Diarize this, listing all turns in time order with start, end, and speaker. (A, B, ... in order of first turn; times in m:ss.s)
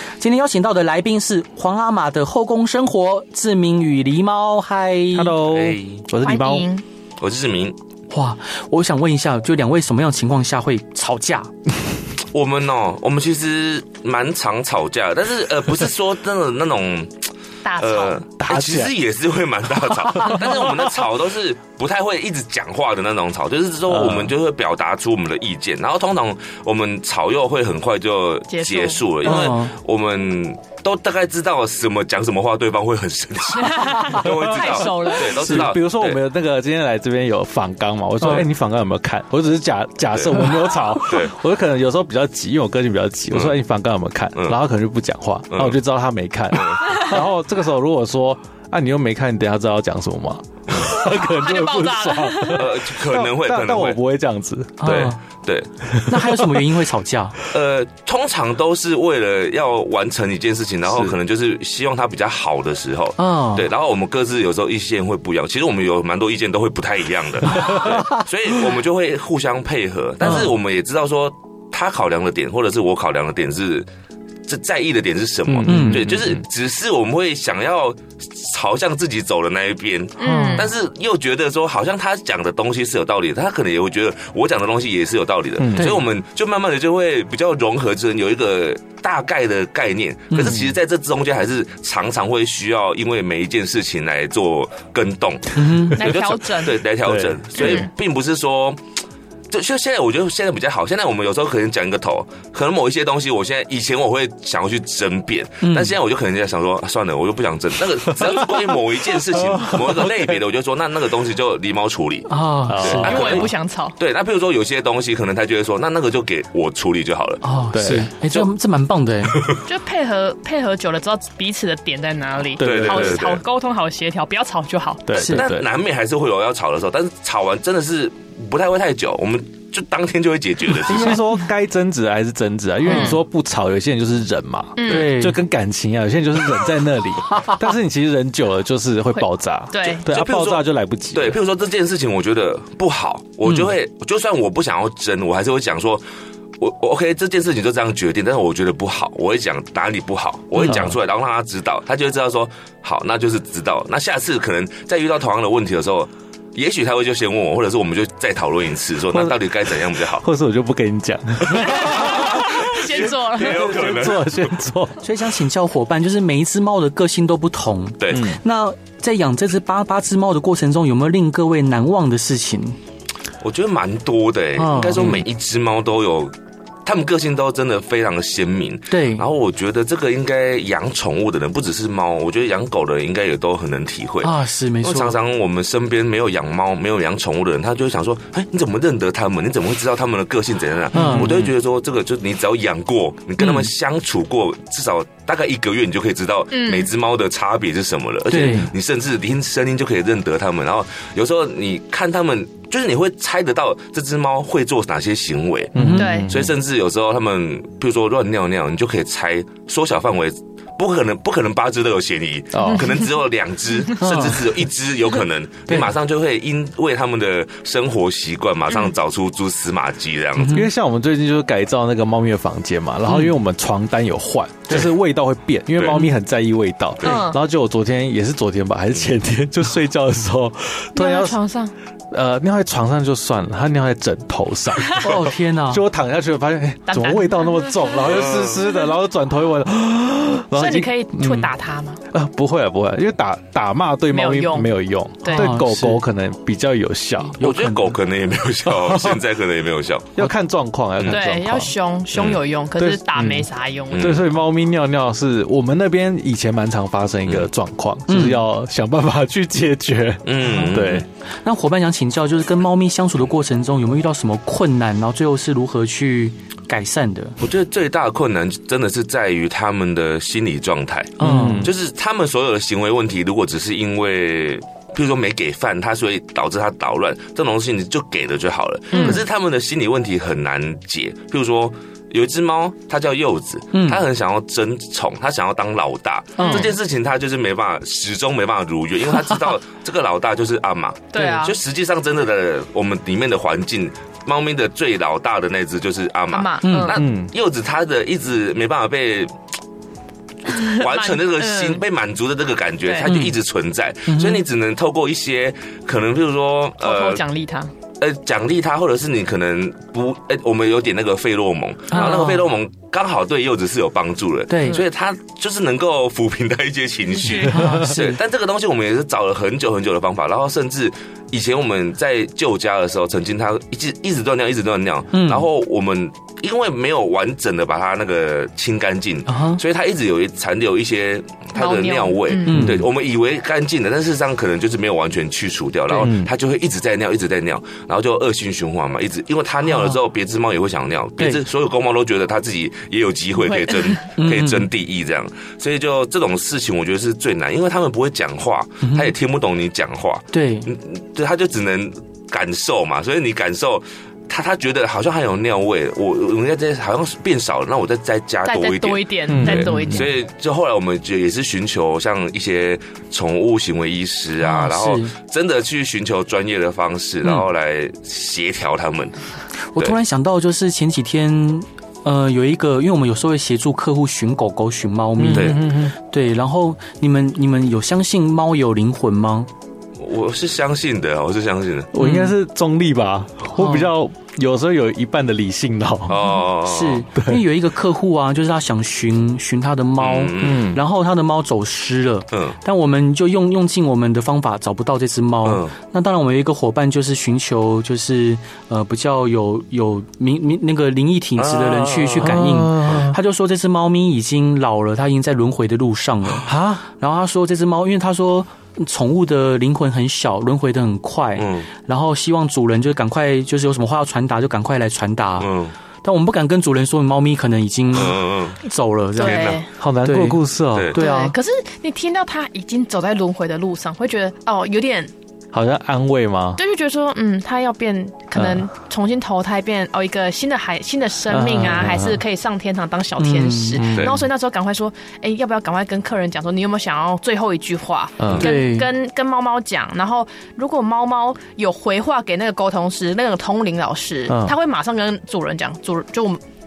0:00.2-0:05.4 A
0:05.1-0:06.7 B
0:05.5-0:06.0 C
0:06.2-0:06.8 D
0:07.2-0:07.8 C
0:08.1-0:11.5 A
0:12.3-0:17.3 C
0:17.6-0:18.2 D
0:17.8-0:36.2 C
0:18.4-0:18.9 B
0:20.0-0:20.8 B
0:23.9-0:24.3 B
0:28.5-0:29.4 D
0:29.2-0:29.7 A
0:33.6-0:35.5 D
0:34.2-0:34.6 B
0:35.3-0:55.0 B
0:38.2-0:38.5 A
0:40.1-0:41.3 C
0:43.3-0:43.6 C
0:45.5-0:45.8 C
0:46.5-0:47.0 C
0:51.0-0:52.7 D
0:52.5-0:54.0 C
0:54.8-0:55.2 A
0:54.8-0:55.7 C
0:55.9-0:56.5 B
0:56.1-0:57.4 A
0:57.5-1:13.9 C
1:00.9-1:01.1 B
1:03.2-1:03.7 A
1:07.5-1:08.0 B
1:10.2-1:10.5 A
1:14.5-1:38.8 C
1:15.5-1:16.4 B
1:15.7-1:16.0 A
1:20.2-1:20.7 D
1:20.2-1:20.7 A
1:25.6-1:26.0 B
1:25.8-1:26.0 A
1:30.3-1:30.7 A
1:35.6-1:36.0 A
1:36.0-1:36.8 D
1:37.0-1:37.5 B
1:37.6-1:37.9 D
1:39.5-1:57.4 C
1:45.6-1:45.9 A
1:48.2-1:48.8 B
1:49.3-1:50.2 B
1:52.3-1:53.2 A
1:52.7-1:53.5 B
1:52.9-1:54.0 D
1:57.4-1:59.4 A
1:57.7-1:58.1 B
1:59.3-1:59.6 C
1:59.7-2:05.2 D
2:02.6-2:03.3 B
2:02.6-2:03.4 C
2:05.1-2:05.7 B
2:05.1-2:05.4 A
2:05.3-2:11.2 C
2:10.8-2:21.4 B
2:12.9-2:13.2 A
2:12.9-2:13.2 D
2:14.8-2:15.1 D
2:14.9-2:15.4 A
2:19.2-2:20.0 D
2:20.0-2:26.0 C
2:23.5-2:23.7 A
2:26.6-2:40.2 C
2:30.6-2:30.9 A
2:30.6-2:31.0 B
2:39.1-2:39.4 B
2:40.1-2:45.0 B
2:41.5-2:43.9 D
2:41.6-2:44.5 C
2:45.0-2:52.8 A
2:48.0-2:48.3 C
2:48.1-2:48.4 B
2:53.4-2:56.3 C
2:54.6-2:55.2 A
2:56.8-3:25.8 C
2:58.9-2:59.2 A
3:04.2-3:05.2 A
3:10.9-3:11.5 A
3:10.9-3:11.4 B
3:13.4-3:13.7 A
3:16.5-3:16.9 D
3:18.3-3:18.7 A
3:25.7-3:26.5 B
3:25.8-3:26.3 A
3:26.0-3:26.3 D
3:26.3-3:40.6 C
3:32.5-3:33.0 B
3:34.0-3:34.5 A
3:35.7-3:35.9 A
3:40.4-3:40.7 A
3:40.5-3:51.4 B
3:43.1-3:43.3 A
3:45.8-3:46.1 C
3:47.0-3:47.4 D
3:51.0-3:51.7 D
3:52.1-4:01.5 B
3:55.0-3:55.8 A
3:56.9-3:58.0 D
3:58.1-3:58.6 C
4:00.5-4:02.0 D
4:02.1-4:07.4 B
4:04.1-4:04.7 D
4:05.2-4:05.6 D
4:05.3-4:06.0 A
4:07.4-4:08.0 A
4:07.4-4:10.2 C
4:08.7-4:09.2 B
4:10.2-4:11.7 B
4:11.0-4:11.2 C
4:11.1-4:14.2 D
4:12.1-4:12.4 C
4:12.8-4:21.1 B
4:13.9-4:14.3 C
4:18.1-4:18.4 A
4:20.2-4:21.1 C
4:21.4-4:27.4 A
4:27.4-4:59.3 C
4:31.2-4:31.7 A
4:31.2-4:31.7 B
4:38.9-4:39.2 A
4:38.9-4:39.2 D
4:43.7-4:44.0 A
4:46.4-4:46.7 A
4:46.4-4:46.7 D
4:51.1-4:51.6 D
4:51.2-4:51.4 A
4:56.3-4:57.0 D
4:56.6-4:57.0 A
4:57.0-4:57.3 B
5:00.5-5:01.8 D
5:00.6-5:07.2 C
5:02.9-5:03.2 D
5:03.0-5:03.4 A
5:04.1-5:04.4 A
5:06.8-5:07.7 D
5:08.0-6:09.2 C
5:11.9-5:12.5 A
5:14.5-5:14.8 A
5:17.1-5:17.7 D
5:17.5-5:18.2 A
5:17.6-5:17.9 B
5:25.1-5:25.5 A
5:29.3-5:29.6 A
5:31.6-5:32.6 D
5:32.5-5:32.8 A
5:32.5-5:32.9 B
5:36.0-5:36.3 B
5:39.7-5:40.0 A
5:43.4-5:44.0 D
5:44.2-5:44.7 A
5:48.8-5:49.1 A
5:50.3-5:50.7 A
5:58.5-6:00.1 D
5:59.3-6:00.1 B
6:04.4-6:05.1 A
6:09.7-6:19.5 A
6:15.2-6:16.0 B
6:15.3-6:15.6 C
6:20.0-6:21.9 C
6:21.9-6:26.3 B
6:22.0-6:22.3 A
6:23.6-6:23.9 A
6:26.1-6:27.0 C
6:26.6-6:55.5 A
6:27.2-6:27.4 B
6:30.0-6:30.7 C
6:30.4-6:30.8 B
6:32.3-6:32.6 C
6:35.4-6:35.7 C
6:41.4-6:43.0 C
6:42.2-6:43.2 B
6:46.4-6:46.8 B
6:51.4-6:51.7 C
6:55.4-6:55.7 C
6:56.0-7:00.4 A
6:57.9-6:58.6 C
6:59.2-6:59.7 D
6:59.2-6:59.6 C
6:59.8-7:00.9 B
7:00.9-7:01.3 A
7:00.9-7:05.1 D
7:05.5-7:06.6 B
7:06.6-7:26.4 D
7:08.4-7:08.7 B
7:11.3-7:12.2 B
7:13.2-7:13.8 A
7:13.8-7:14.1 B
7:14.0-7:14.2 C
7:18.2-7:18.4 B
7:18.4-7:18.9 A
7:24.3-7:24.6 B